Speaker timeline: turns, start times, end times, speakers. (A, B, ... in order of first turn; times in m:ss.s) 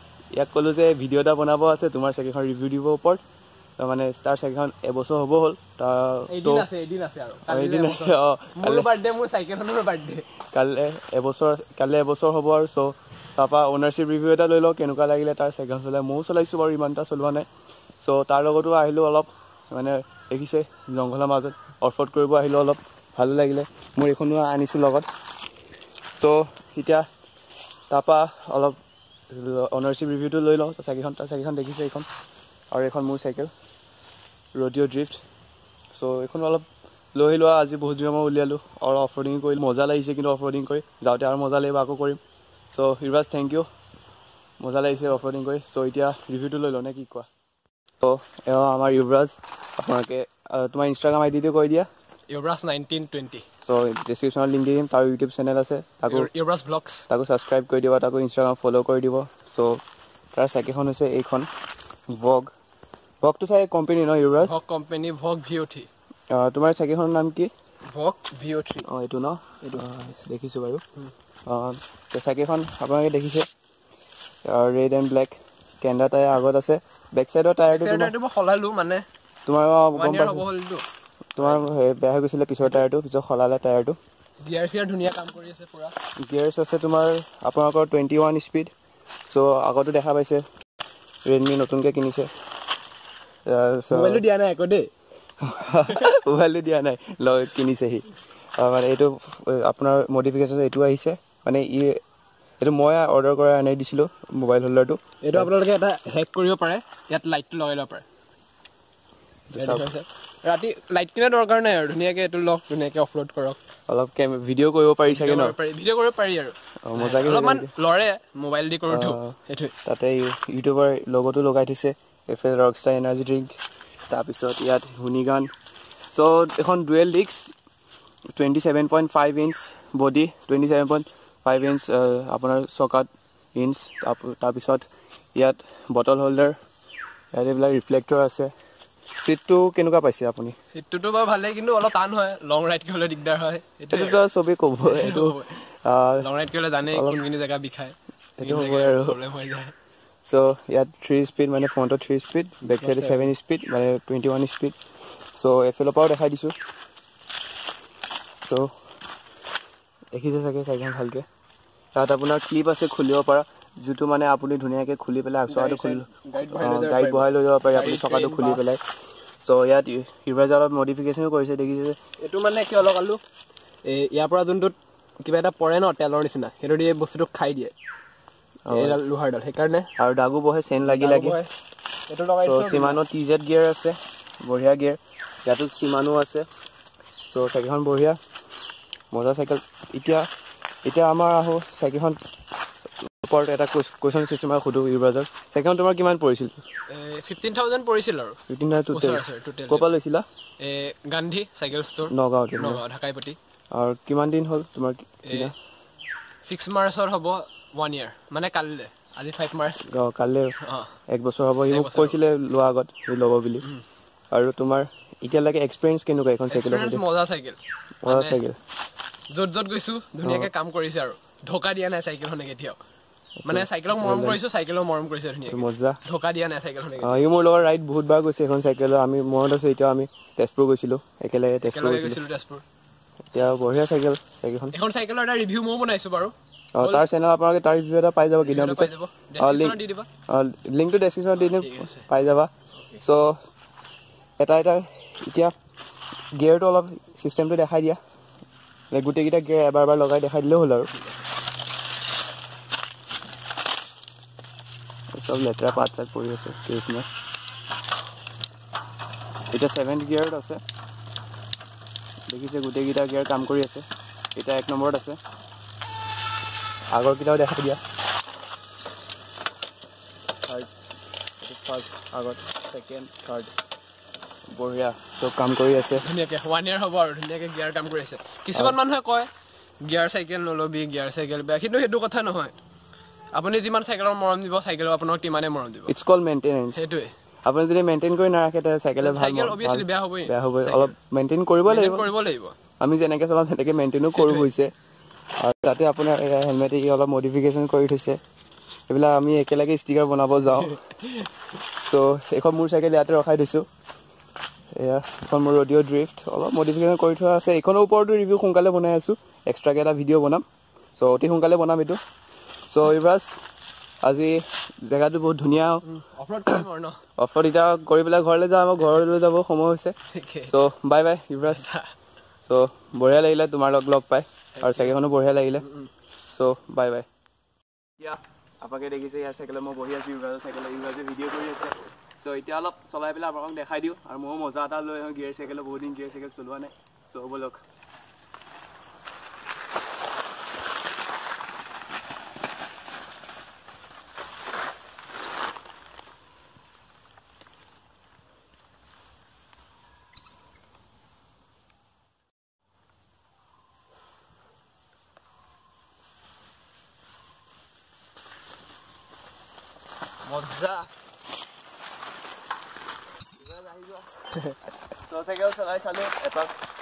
0:00.4-0:03.2 A
0:03.8-0:06.7 A
0:06.3-0:10.3 B
0:07.5-0:08.9 A
0:10.5-0:17.5 A
0:18.0-0:25.1 A
0:26.2-0:27.1 A
0:27.9-0:28.8 A
0:29.3-0:32.1 A
0:32.7-0:33.5 A
0:34.6-0:35.2 A
0:35.9-0:43.7 A
0:44.6-0:47.3 A
0:48.0-0:51.9 A
0:52.3-0:53.5 B
0:53.6-0:56.3 A
0:56.1-0:57.1 B
0:57.1-0:59.8 A
1:00.3-1:01.5 A
1:02.1-1:02.5 A
1:03.2-1:04.5 A
1:04.4-1:05.9 B
1:06.3-1:07.5 A
1:07.9-1:08.9 B
1:08.8-1:10.8 A
1:11.5-1:13.5 A
1:14.4-1:18.1 A
1:17.7-1:19.0 B
1:19.5-1:20.5 A
1:19.9-1:20.9 B
1:21.4-1:24.0 A
1:21.4-1:21.6 B
1:24.4-1:25.9 B
1:26.2-1:28.7 A
1:29.3-1:30.4 A
1:31.3-1:32.3 A
1:33.4-1:34.2 A
1:33.9-1:34.9 B
1:35.4-1:38.1 A
1:38.6-1:42.0 A
1:42.6-1:45.5 A
1:45.2-1:48.0 B
1:49.5-1:49.9 A
1:49.6-1:53.6 B
1:53.9-1:55.6 A
1:55.1-1:59.7 B
1:56.8-1:57.7 A
1:58.9-2:03.6 A
2:04.1-2:05.5 A
2:06.1-2:07.5 A
2:08.3-2:16.6 A
2:17.3-2:18.5 A
2:19.2-2:20.6 A
2:20.7-2:24.2 B
2:23.9-2:26.3 A
2:24.8-2:25.5 B
2:26.2-2:29.7 B
2:26.9-2:27.2 A
2:28.4-2:29.2 A
2:30.3-2:34.8 A
2:32.6-2:33.3 B
2:35.4-2:36.6 A
2:38.4-2:38.7 A
2:40.1-2:41.3 A
2:42.0-2:48.8 A
2:45.5-2:48.8 B
2:49.4-2:52.0 A
2:52.2-2:53.2 B
2:53.8-2:57.8 B
2:58.6-2:59.0 A
2:58.7-2:59.9 B
3:00.0-3:01.4 A
3:00.8-3:01.5 B
3:02.1-3:03.0 B
3:02.4-3:06.5 A
3:07.3-3:08.2 A
3:09.1-3:10.3 A
3:10.8-3:12.2 A
3:13.1-3:16.6 A
3:16.9-3:18.4 B
3:18.5-3:20.3 A
3:18.9-3:19.9 B
3:20.6-3:23.4 B
3:22.1-3:22.8 A
3:23.7-3:25.5 A
3:25.2-3:25.5 B
3:26.4-3:29.9 B
3:29.8-3:30.6 A
3:30.6-3:30.9 B
3:31.1-3:33.7 A
3:31.7-3:32.2 B
3:34.3-3:37.0 A
3:36.5-3:38.4 B
3:38.0-3:38.6 A
3:39.3-3:42.8 B
3:43.4-3:44.4 A
3:43.5-3:47.2 B
3:45.5-3:46.0 A
3:47.0-3:52.2 A
3:51.6-3:52.6 B
3:53.3-3:54.8 A
3:54.7-3:57.1 B
3:56.8-4:03.4 A
3:58.4-4:00.1 B
4:01.4-4:02.1 B
4:04.4-4:05.5 A
4:06.4-4:08.0 A
4:08.9-4:10.9 A
4:15.1-4:17.1 A
4:19.5-4:20.6 A
4:22.3-4:25.2 A
4:26.9-4:27.8 A
4:31.4-4:33.5 A
4:34.6-4:36.1 A
4:36.0-4:39.3 B
4:39.8-4:42.5 B
4:43.4-4:45.9 B
4:45.9-4:46.9 A
4:46.8-4:47.1 B
4:47.5-4:52.1 A
4:49.0-4:51.0 B
4:51.7-4:52.6 B
4:52.8-4:54.7 A
4:54.2-4:54.5 B
4:55.4-4:58.2 A
4:58.9-5:00.8 A
5:00.7-5:01.3 B
5:01.8-5:03.7 A
5:04.8-5:12.0 A
5:12.7-5:13.4 A
5:14.0-5:15.8 A
5:15.8-5:17.0 B
5:17.2-5:20.0 A
5:20.1-5:20.6 B
5:20.5-5:21.7 A
5:21.5-5:21.9 B
5:22.5-5:25.7 A
5:24.6-5:25.0 B
5:25.6-5:25.9 B
5:26.3-5:27.1 A
5:28.0-5:37.6 A
6:00.3-6:00.9 A
6:03.4-6:04.3 A
6:04.9-6:06.6 A